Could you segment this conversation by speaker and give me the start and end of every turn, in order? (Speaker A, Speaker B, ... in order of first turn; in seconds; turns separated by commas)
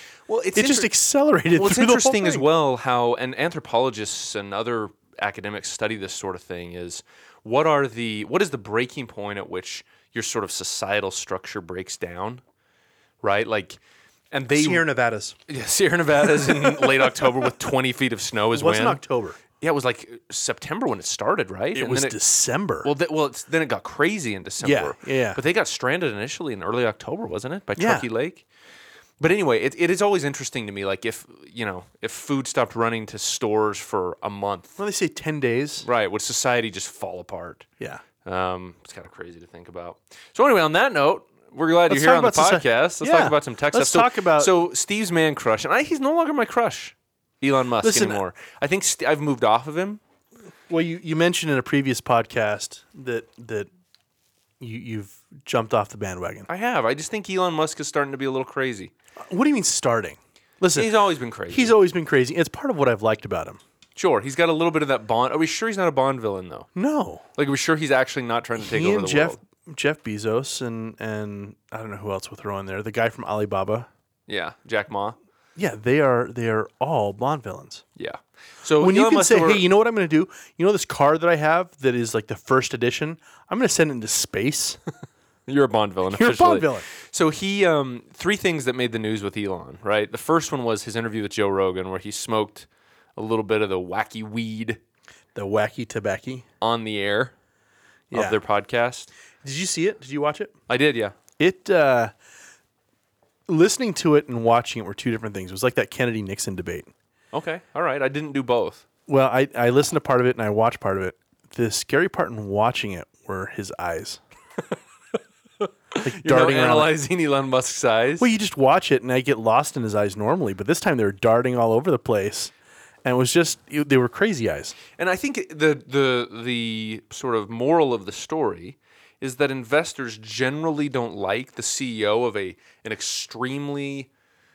Speaker A: 0.3-0.9, Speaker B: 0.6-2.4, Speaker A: 1.6-12.4, Speaker A: 13.2-13.8, Speaker A: 14.3-14.9, Speaker B: 14.5-15.4, Speaker A: 15.5-19.0, Speaker B: 16.4-17.3, Speaker B: 18.5-19.4, Speaker A: 19.6-22.2, Speaker B: 21.8-22.9, Speaker A: 22.8-28.4, Speaker B: 24.6-25.4, Speaker B: 27.8-28.1, Speaker A: 29.2-34.8, Speaker B: 34.8-35.9, Speaker A: 35.8-37.7, Speaker A: 38.2-50.0, Speaker B: 41.9-44.5, Speaker B: 47.8-48.2, Speaker B: 50.7-53.7, Speaker B: 54.6-56.5, Speaker A: 56.5-58.9, Speaker B: 59.2-60.9, Speaker A: 60.7-61.7, Speaker B: 61.5-63.6, Speaker A: 64.0-66.7, Speaker B: 66.8-67.2, Speaker A: 67.3-69.4, Speaker B: 68.6-73.9, Speaker A: 74.3-75.2, Speaker B: 75.6-77.8, Speaker A: 78.0-79.6, Speaker B: 78.8-84.8, Speaker A: 85.5-94.8, Speaker B: 86.1-86.9, Speaker B: 95.3-96.5, Speaker A: 96.6-97.3, Speaker B: 98.1-98.4, Speaker A: 98.1-99.1, Speaker B: 99.4-100.6, Speaker A: 100.7-101.2, Speaker B: 101.4-102.1, Speaker B: 103.5-106.9, Speaker A: 107.3-108.8, Speaker B: 109.1-114.2, Speaker A: 115.6-118.3, Speaker B: 116.0-116.9, Speaker B: 118.2-122.5, Speaker B: 123.0-124.8, Speaker A: 125.0-134.1